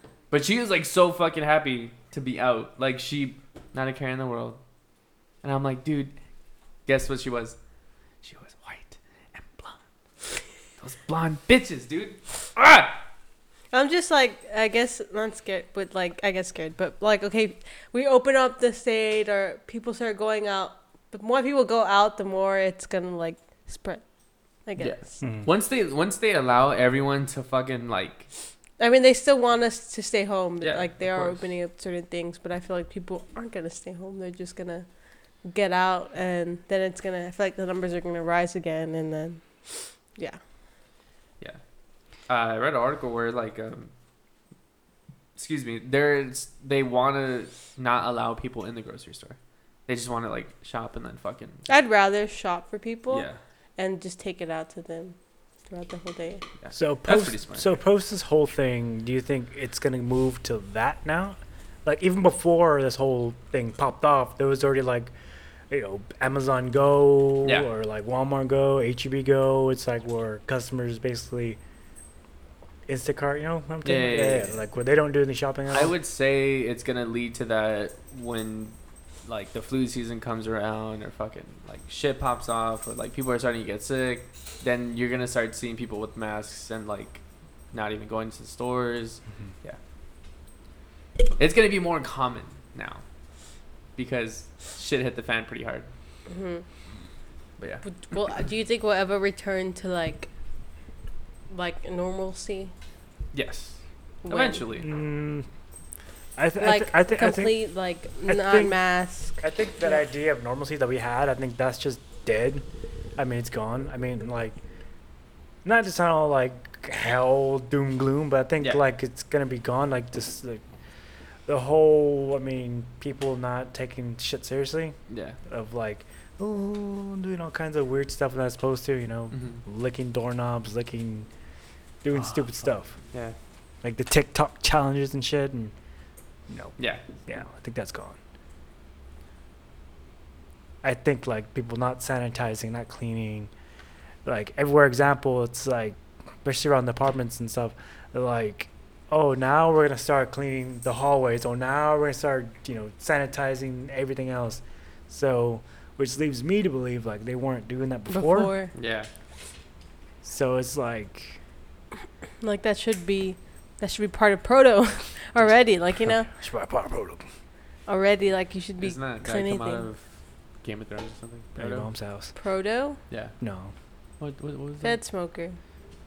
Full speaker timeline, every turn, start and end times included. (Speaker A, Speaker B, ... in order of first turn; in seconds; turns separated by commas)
Speaker A: 0.3-4.6, Speaker A: 5.4-6.1, Speaker A: 6.8-7.6, Speaker A: 8.2-9.8, Speaker A: 10.8-13.0, Speaker B: 13.7-24.0, Speaker B: 24.6-25.2, Speaker A: 24.8-28.3, Speaker C: 25.2-25.5, Speaker B: 28.8-34.9, Speaker A: 30.6-31.4, Speaker B: 35.4-40.4, Speaker A: 42.3-43.9, Speaker A: 45.4-51.7, Speaker B: 51.7-55.2, Speaker A: 53.1-53.4, Speaker B: 55.7-56.4, Speaker A: 56.6-57.7, Speaker C: 56.7-65.1, Speaker C: 65.7-71.6, Speaker A: 67.4-67.7, Speaker C: 72.9-75.9, Speaker A: 73.8-74.5, Speaker A: 75.7-89.8, Speaker A: 91.4-93.0, Speaker A: 94.0-95.9, Speaker B: 96.3-96.6, Speaker A: 97.6-97.8, Speaker B: 97.8-100.3, Speaker B: 101.5-102.7, Speaker A: 103.3-104.9, Speaker B: 104.2-104.6, Speaker C: 104.8-105.5, Speaker C: 106.4-107.5, Speaker B: 106.6-109.9, Speaker C: 108.3-108.8, Speaker C: 109.4-112.7, Speaker C: 113.2-114.6, Speaker C: 115.6-120.6, Speaker C: 121.5-125.0, Speaker A: 125.1-125.4, Speaker C: 125.5-131.3, Speaker A: 129.3-129.6, Speaker C: 132.0-133.0, Speaker A: 132.1-132.5, Speaker A: 133.1-133.4, Speaker C: 133.8-135.7, Speaker C: 136.5-136.8, Speaker A: 136.8-137.0, Speaker C: 137.3-138.2, Speaker C: 140.8-143.5, Speaker C: 144.2-158.5, Speaker B: 158.1-158.7, Speaker A: 158.7-159.1, Speaker C: 160.2-161.4, Speaker B: 162.4-166.3, Speaker C: 166.0-167.2, Speaker B: 167.9-169.9, Speaker A: 168.8-170.1, Speaker A: 170.6-171.9, Speaker C: 171.6-172.3, Speaker B: 172.3-173.0, Speaker C: 173.4-173.7, Speaker A: 174.2-175.0, Speaker B: 174.8-175.6